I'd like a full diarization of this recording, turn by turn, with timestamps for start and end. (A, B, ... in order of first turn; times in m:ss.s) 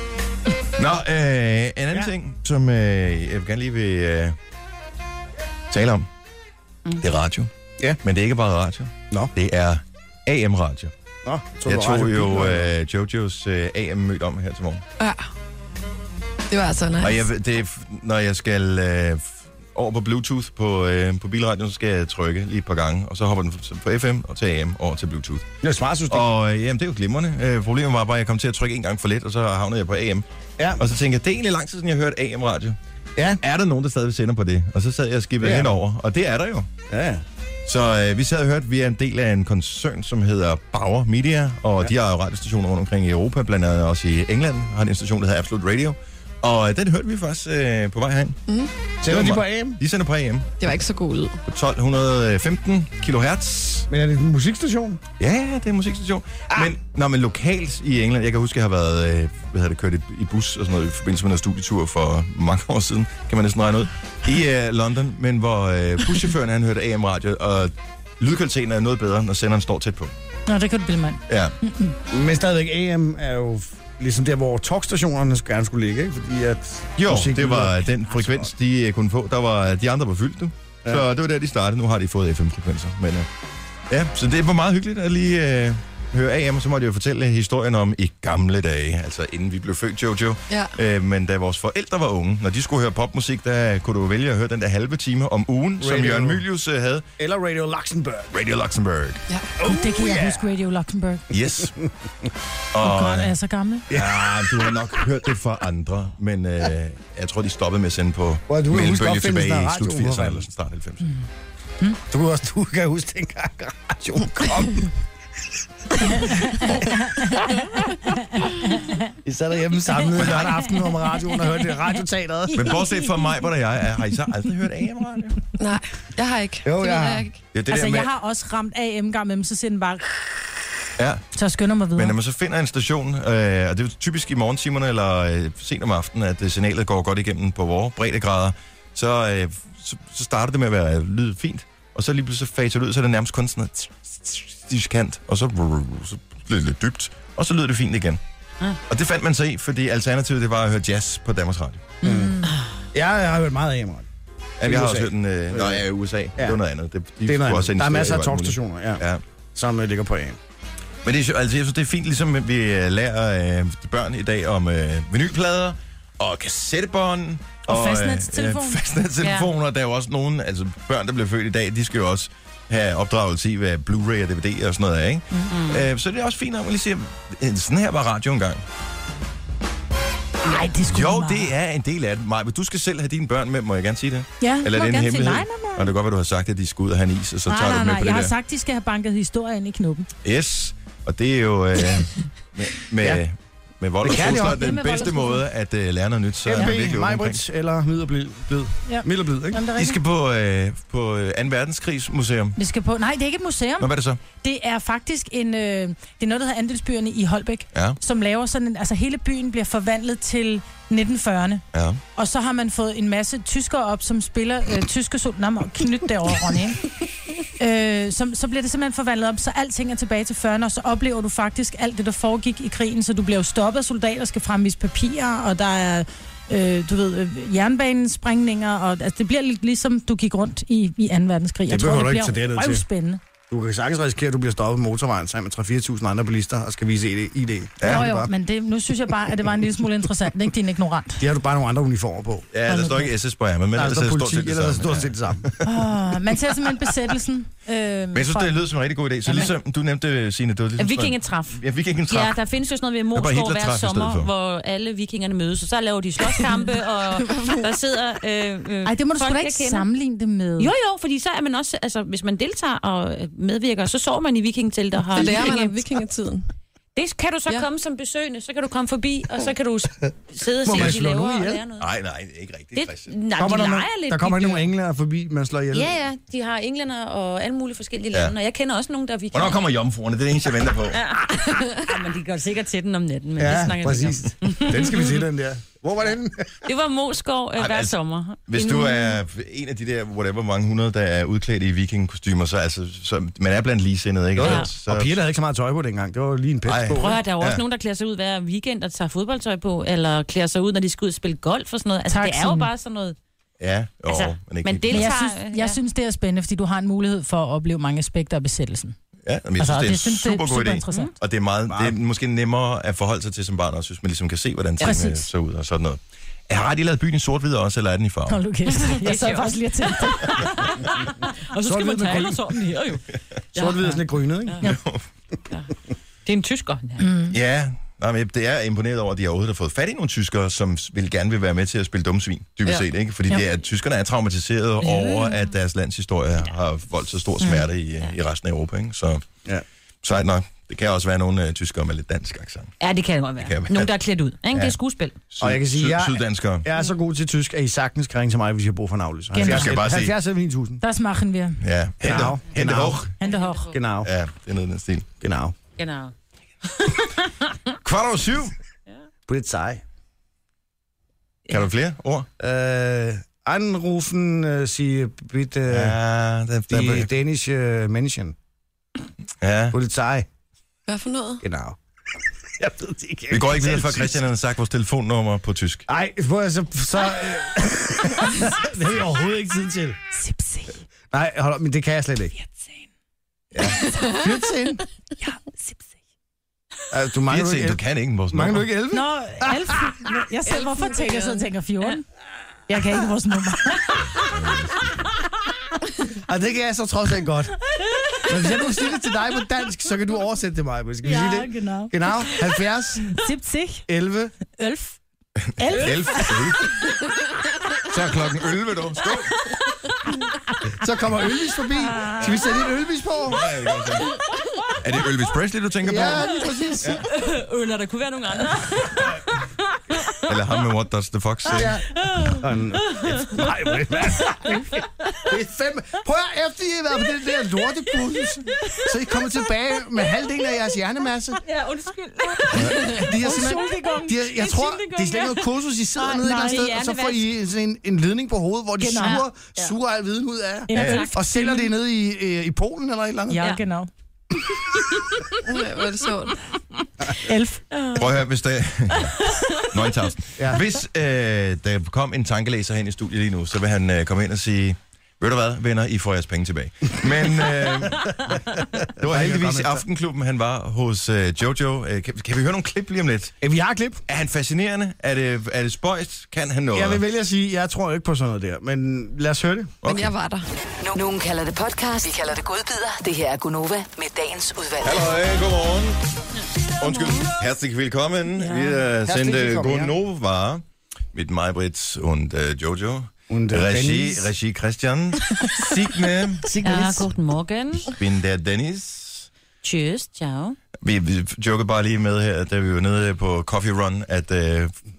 0:00.8-0:04.4 A
0:05.7-0:06.1 A
0:07.0-0:07.5 A
0:08.0-0:10.9 A
0:11.2-0:12.7 B
0:11.6-0:14.8 A
0:15.0-0:15.3 C
0:16.5-0:17.2 C
0:17.0-0:25.5 A
0:25.6-0:26.3 B
0:26.1-0:30.2 A
0:30.6-0:30.8 B
0:30.8-0:32.8 A
0:33.2-0:33.4 B
0:33.4-0:36.7 A
0:35.4-0:35.8 B
0:36.9-0:37.2 B
0:37.7-0:48.4 A
0:48.5-0:48.7 C
0:49.0-0:49.8 B
0:49.0-0:50.5 A
0:50.6-0:51.4 C
0:51.5-0:53.9 A
0:53.9-0:55.0 B
0:55.2-1:10.1 A
1:10.5-1:12.0 D
1:11.3-1:11.6 A
1:12.1-1:18.5 B
1:17.0-1:23.3 A
1:23.9-1:37.1 A
1:30.5-1:30.8 C
1:35.8-1:36.4 B
1:37.2-1:38.3 B
1:38.3-1:39.2 A
1:39.6-1:40.5 B
1:39.6-1:41.3 D
1:41.3-1:41.8 A
1:41.6-1:41.9 B
1:42.7-1:43.3 A
1:42.8-1:43.9 D
1:43.9-1:44.9 B
1:43.9-1:51.1 A
1:48.5-1:50.5 B
1:52.1-1:54.9 B
1:56.0-1:56.7 B
1:56.1-1:59.1 D
1:59.2-2:02.8 B
2:00.1-2:00.7 A
2:00.8-2:01.5 D
2:02.5-2:03.2 D
2:02.5-2:05.5 A
2:05.6-2:07.4 C
2:06.6-2:07.3 B
2:07.5-2:08.1 A
2:07.7-2:10.1 D
2:11.0-2:11.2 A
2:11.3-2:12.2 D
2:12.0-2:28.2 A
2:28.9-2:31.9 A
2:32.0-2:32.5 D
2:32.0-2:34.1 B
2:34.6-2:39.2 A
2:34.6-2:35.8 B
2:37.2-2:39.0 B
2:39.6-2:40.4 B
2:41.0-2:58.6 A
2:47.7-2:48.8 D
2:49.2-2:49.5 E
2:55.5-2:55.9 E
3:00.4-3:01.5 D
3:00.9-3:08.3 A
3:04.4-3:05.9 D
3:07.5-3:10.1 D
3:10.2-3:17.4 A
3:14.0-3:14.8 B
3:14.2-3:15.4 D
3:16.4-3:19.6 B
3:18.9-3:20.0 D
3:19.8-3:22.6 A
3:22.6-3:31.6 D
3:23.8-3:24.2 A
3:31.7-3:32.0 A
3:32.2-3:36.9 D
3:37.6-3:53.2 D
3:51.7-3:52.8 B
3:53.5-3:58.3 B
3:57.8-4:01.2 D
4:01.2-4:02.5 B
4:02.5-4:05.6 A
4:02.7-4:03.1 D
4:03.7-4:05.5 B
4:05.6-4:08.6 D
4:08.1-4:12.4 A
4:09.3-4:09.5 E
4:10.8-4:19.9 E
4:13.1-4:14.3 A
4:17.2-4:17.7 C
4:18.8-4:20.7 D
4:20.6-4:25.8 E
4:25.1-4:26.5 C
4:27.0-4:31.9 E
4:30.6-4:31.6 B
4:31.8-4:33.1 A
4:32.8-4:34.7 E
4:33.3-4:36.0 B
4:35.7-4:39.7 E
4:39.3-4:41.0 A
4:40.9-4:45.2 E
4:43.4-4:46.7 B
4:46.7-4:49.2 E
4:47.6-4:48.0 A
4:48.5-4:55.2 A
4:54.4-4:57.2 B
4:54.4-4:54.7 E
4:56.7-4:57.6 A
4:57.0-5:03.2 E
5:02.1-5:02.7 D
5:03.6-5:05.1 A
5:04.1-5:05.8 E
5:04.9-5:09.0 D
5:09.3-5:18.4 A
5:09.6-5:11.1 D
5:11.7-5:12.0 B
5:14.8-5:15.3 D
5:18.3-5:20.7 D
5:18.7-5:24.7 E
5:21.6-5:22.6 B
5:23.5-5:24.7 B
5:24.6-5:25.0 A
5:26.2-5:27.1 E
5:27.0-5:27.4 D
5:27.3-5:39.3 A
5:34.8-5:35.5 E
5:37.4-5:38.1 E
5:40.0-5:42.7 A
5:42.8-5:45.2 E
5:43.4-5:43.9 A
5:45.3-5:46.7 A
5:45.4-5:50.8 B
5:49.3-5:49.8 D
5:49.4-5:50.1 A
5:50.8-5:51.6 D
5:51.6-5:53.1 A
5:52.0-5:53.1 B
5:53.2-5:53.7 D
5:53.2-5:53.8 E
5:53.7-5:54.1 B
5:54.0-5:55.1 A
5:55.2-5:55.6 B
5:55.8-5:56.1 E
5:56.7-5:57.6 E
5:57.8-5:58.5 A
5:59.3-5:59.8 B
6:01.5-6:02.3 A
6:02.4-6:06.0 B
6:05.7-6:07.1 A
6:06.7-6:08.4 B
6:09.4-6:09.8 A
6:09.7-6:10.3 B
6:10.9-6:11.4 C
6:11.4-6:11.8 B
6:12.6-6:14.3 B
6:13.3-6:15.8 A
6:15.9-6:20.0 B
6:20.1-6:20.8 D
6:21.1-6:22.3 B
6:22.4-6:22.8 D
6:23.5-6:23.9 A
6:24.1-6:24.8 B
6:25.2-6:25.9 D
6:26.9-6:29.8 B
6:27.3-6:28.7 A
6:28.9-6:32.1 D
6:30.5-6:31.5 C
6:32.7-6:34.1 D
6:34.2-6:35.1 A
6:36.2-6:37.6 B
6:38.2-6:43.2 B
6:41.0-6:42.3 D
6:43.1-6:43.8 D
6:43.9-6:44.3 B
6:44.6-6:45.0 D
6:45.5-6:46.7 A
6:45.6-6:46.5 D
6:47.9-6:49.4 A
6:50.8-6:53.5 B
6:51.9-6:52.3 D
6:53.3-6:54.2 A
6:54.8-6:57.1 A
6:55.8-6:57.0 B
6:57.1-7:00.2 E
7:00.3-7:01.8 A
7:01.5-7:11.4 B
7:01.6-7:05.2 E
7:11.4-7:13.1 E
7:12.5-7:23.5 B
7:13.1-7:14.2 D
7:14.2-7:17.3 E
7:16.2-7:16.6 D
7:18.8-7:19.2 D
7:19.0-7:19.7 E
7:20.7-7:21.7 D
7:20.7-7:21.0 A
7:20.7-7:21.1 E
7:23.3-7:23.9 D
7:24.6-7:25.4 E
7:25.4-7:26.4 C
7:27.2-7:27.6 D
7:27.7-7:28.2 E
7:28.0-7:29.2 A
7:29.3-7:29.7 E
7:29.7-7:38.4 A
7:30.4-7:30.6 B
7:39.0-7:39.8 B
7:39.0-7:43.4 A
7:43.4-7:44.0 B
7:44.1-7:47.0 A
7:46.7-7:49.8 B
7:49.8-7:50.1 A
7:49.9-7:50.5 C
7:50.8-7:55.1 F
7:54.8-7:56.0 A
7:56.8-8:06.6 A
7:58.4-7:58.8 D
7:59.0-8:00.0 B
8:03.3-8:04.3 B
8:06.4-8:07.1 B
8:06.6-8:07.9 E
8:07.8-8:09.3 A
8:09.6-8:10.6 E
8:10.8-8:14.8 A